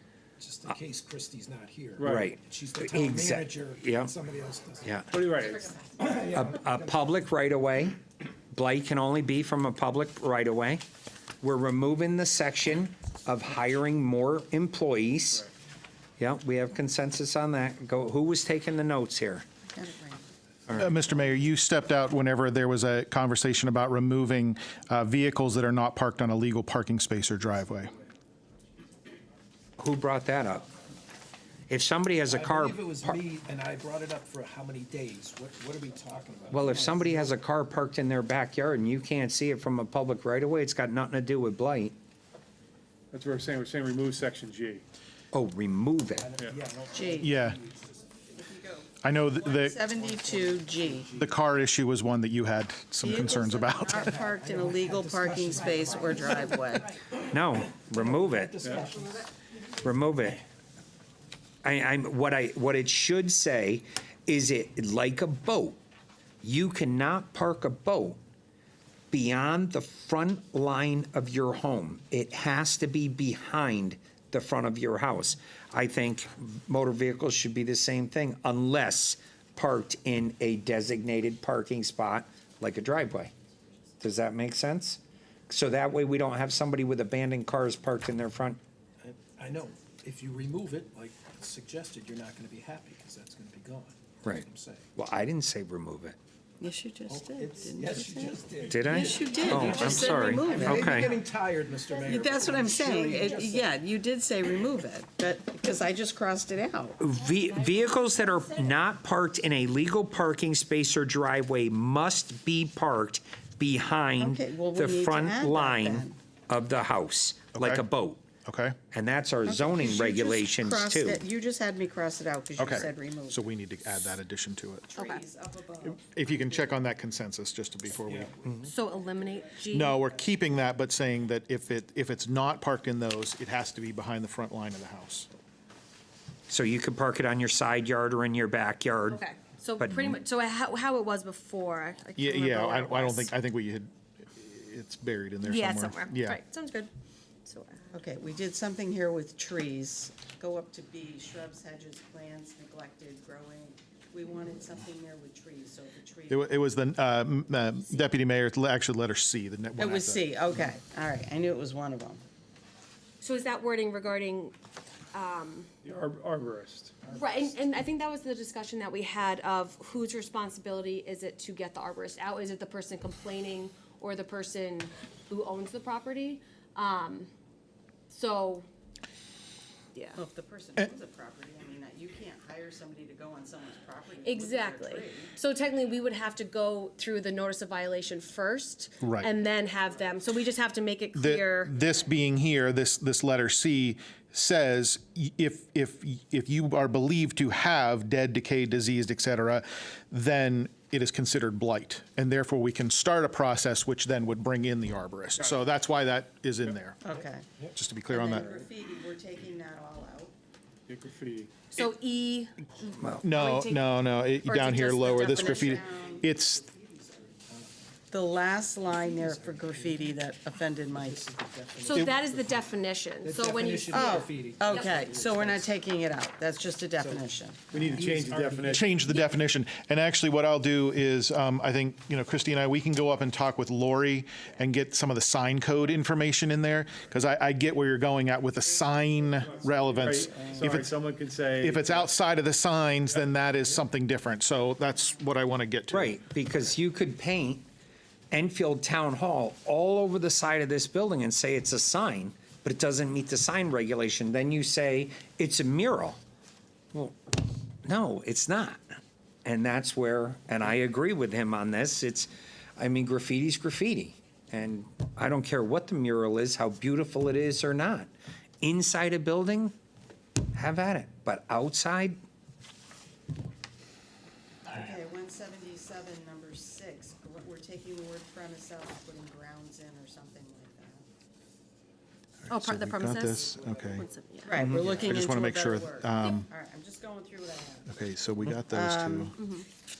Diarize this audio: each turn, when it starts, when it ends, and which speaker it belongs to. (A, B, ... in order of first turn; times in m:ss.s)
0:00.4-0:05.2 A
0:02.0-0:02.3 B
0:02.0-0:04.1 C
0:04.8-0:05.1 C
0:05.1-0:05.8 B
0:06.0-0:07.1 A
0:06.3-0:10.8 C
0:11.4-0:15.5 C
0:16.2-0:19.4 C
0:19.7-0:20.2 D
0:20.7-0:27.9 E
0:29.8-0:30.7 C
0:31.7-0:33.2 C
0:32.3-0:37.3 A
0:36.5-0:42.0 C
0:43.1-0:44.8 B
0:45.3-0:46.3 C
0:46.1-0:48.0 A
0:46.9-0:47.3 D
0:47.2-0:47.6 E
0:48.3-0:51.1 D
0:49.0-0:49.8 E
0:49.9-0:51.4 A
0:51.2-0:54.2 E
0:53.0-0:56.9 D
0:54.1-0:57.1 A
0:57.2-0:58.6 C
0:57.9-0:59.3 A
0:59.8-1:00.4 C
1:01.6-1:05.8 C
1:06.4-1:08.2 C
1:09.1-1:23.3 C
1:24.0-1:28.6 C
1:29.0-1:34.8 A
1:34.2-1:36.2 C
1:36.6-1:41.0 D
1:37.1-1:43.7 A
1:38.6-1:41.2 C
1:42.0-1:47.0 D
1:47.0-1:58.2 C
1:47.6-1:48.4 F
1:54.2-1:56.2 D
1:57.5-1:57.8 E
1:58.4-1:58.8 E
1:58.9-2:01.2 C
1:59.4-2:03.5 D
2:02.6-2:04.9 E
2:04.9-2:06.8 D
2:05.0-2:05.2 F
2:05.8-2:08.3 E
2:08.4-2:08.7 C
2:08.6-2:10.0 F
2:09.7-2:15.3 E
2:16.5-2:19.2 C
2:19.1-2:23.3 F
2:19.8-2:20.2 C
2:22.2-2:26.4 E
2:25.4-2:26.9 F
2:27.4-2:27.9 F
2:27.9-2:36.6 D
2:36.3-2:40.4 E
2:39.8-2:42.2 D
2:43.2-2:44.5 F
2:45.1-2:45.7 F
2:45.8-2:47.1 B
2:47.1-2:57.3 F
2:58.1-2:58.7 F
2:59.9-3:00.2 F
3:00.2-3:05.3 D
3:04.2-3:11.8 F
3:09.0-3:09.3 E
3:11.1-3:27.0 E
3:27.0-3:27.5 D
3:27.7-3:28.5 E
3:28.1-3:30.3 D
3:30.9-3:31.6 B
3:31.7-3:35.8 F
3:33.2-3:36.6 E
3:35.1-3:36.3 D
3:35.9-3:37.8 A
3:38.1-3:41.2 D
3:38.8-3:40.2 A
3:40.9-3:45.8 A
3:41.8-3:44.9 F
3:41.9-3:42.2 E
3:43.9-3:47.6 D
3:47.0-3:49.0 A
3:47.7-3:48.8 B
3:48.7-4:00.9 E
3:58.5-4:00.8 D
3:59.4-4:02.1 B
4:01.6-4:06.2 E
4:05.9-4:07.7 C
4:08.3-4:16.2 C
4:16.9-4:17.2 C
4:17.8-4:18.8 C
4:19.4-4:28.1 C
4:28.6-4:29.7 C
4:30.5-4:32.2 C
4:34.7-4:41.0 D
4:42.4-4:44.0 E
4:42.5-4:44.6 F
4:43.3-4:44.5 A
4:44.4-4:47.9 D
4:44.6-4:46.5 E
4:47.9-4:49.4 E
4:48.7-4:49.4 D
4:49.4-4:49.7 F